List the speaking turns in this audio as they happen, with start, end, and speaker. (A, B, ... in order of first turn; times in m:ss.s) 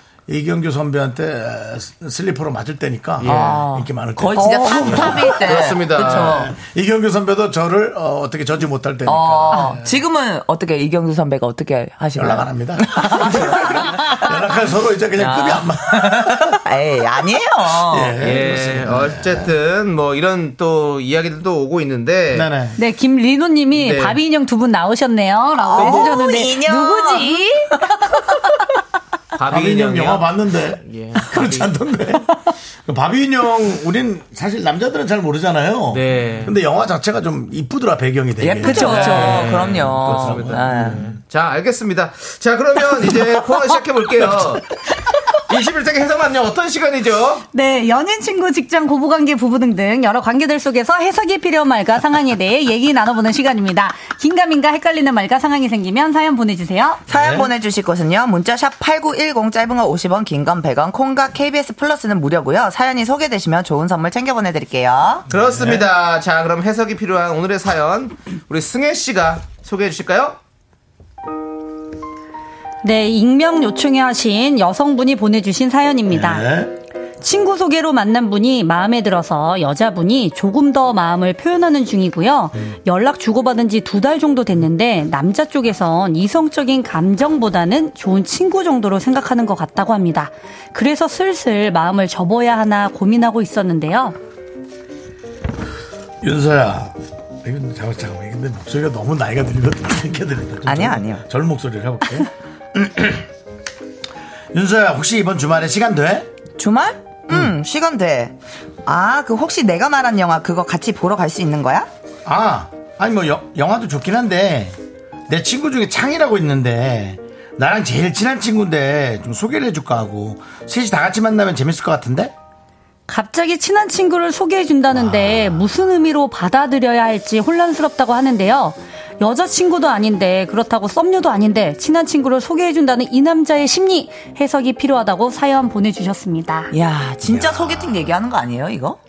0:00.3-0:05.4 A
0:03.2-0:03.7 B
0:03.2-0:06.6 C
0:04.3-0:05.4 D
0:04.8-0:06.5 B
0:05.9-0:10.0 A
0:09.1-0:14.4 C
0:12.2-0:16.6 A
0:15.1-0:18.2 C
0:17.8-0:19.5 A
0:18.2-0:22.5 B
0:22.3-0:22.8 A
0:22.8-0:28.3 D
0:23.7-0:24.2 B
0:25.6-0:27.5 C
0:29.4-0:30.3 B
0:29.5-0:32.3 A
0:30.8-0:31.7 B
0:32.8-0:41.2 A
0:35.9-0:36.6 B
0:38.4-0:41.0 C
0:38.6-0:39.4 D
0:38.7-0:44.7 B
0:44.2-0:44.5 A
0:45.5-0:47.5 B
0:47.5-0:57.0 D
0:57.1-0:57.5 A
0:57.1-1:05.3 C
1:05.3-1:10.4 B
1:05.4-1:05.9 A
1:12.8-1:16.5 D
1:16.1-1:16.8 A
1:17.2-1:34.2 D
1:36.2-1:43.3 A
1:40.6-1:41.2 C
1:44.5-1:46.3 A
1:46.6-1:51.9 C
1:52.3-1:54.8 A
1:55.3-2:02.3 A
2:03.1-2:16.7 D
2:04.9-2:05.7 A
2:16.7-2:19.0 C
2:17.2-2:18.2 A